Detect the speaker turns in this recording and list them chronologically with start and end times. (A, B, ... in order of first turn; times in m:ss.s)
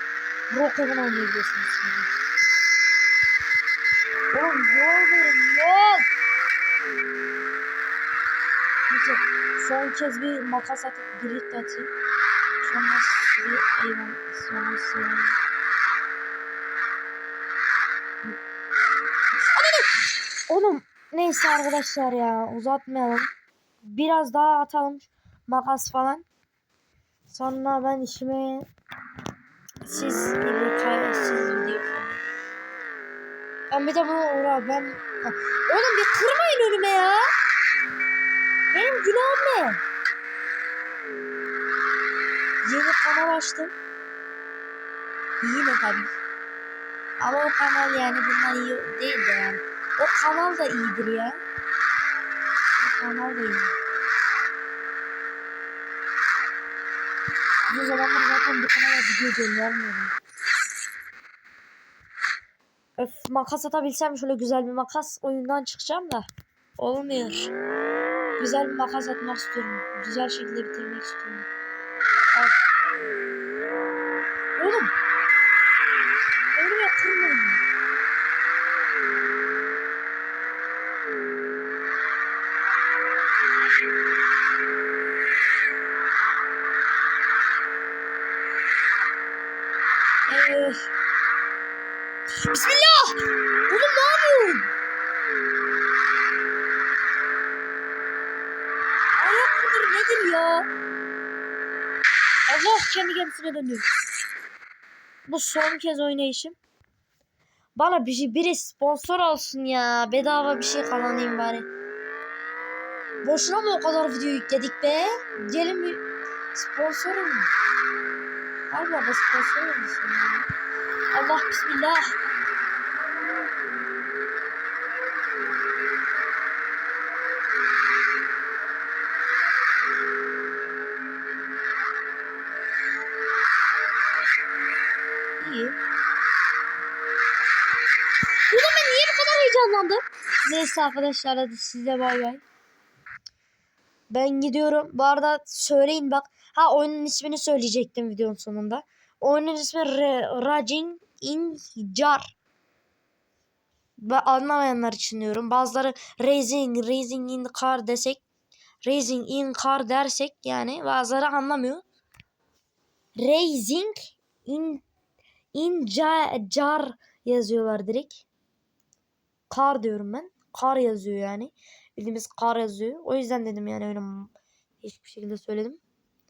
0:00.5-0:02.1 A
0:04.3-0:06.1 A
0:08.9-0:11.9 A
0:12.6-0:15.4 A
0:19.4-0:19.9 A
0:20.5-0:23.3 A
0:23.8-0:26.2 A
0:27.3-0:28.7 A
0:29.8-0:32.3 A
0:33.7-0:37.3 A
0:38.7-0:39.8 A
0:42.6-0:43.7 A
0:45.4-0:46.2 A
0:47.2-0:51.4 A
0:52.8-0:53.8 A
0:57.7-1:00.1 A
1:03.0-1:07.5 A
1:08.4-1:11.5 A
1:14.6-1:14.9 A
1:16.5-1:17.6 A
1:30.3-1:30.9 A
1:32.3-1:34.7 A
1:39.2-1:40.7 A
1:42.5-1:43.9 A
1:45.2-1:46.6 A
1:47.8-1:51.7 A
1:53.2-1:56.0 A
1:56.5-1:57.5 A
1:58.7-2:00.4 A
2:01.1-2:02.2 A
2:15.4-2:15.8 A
2:18.5-2:22.4 A
2:24.1-2:32.3 A
2:34.0-2:38.2 A
2:38.8-2:41.8 A
2:43.2-2:44.8 A
2:45.5-2:48.2 A
2:49.5-2:55.8 A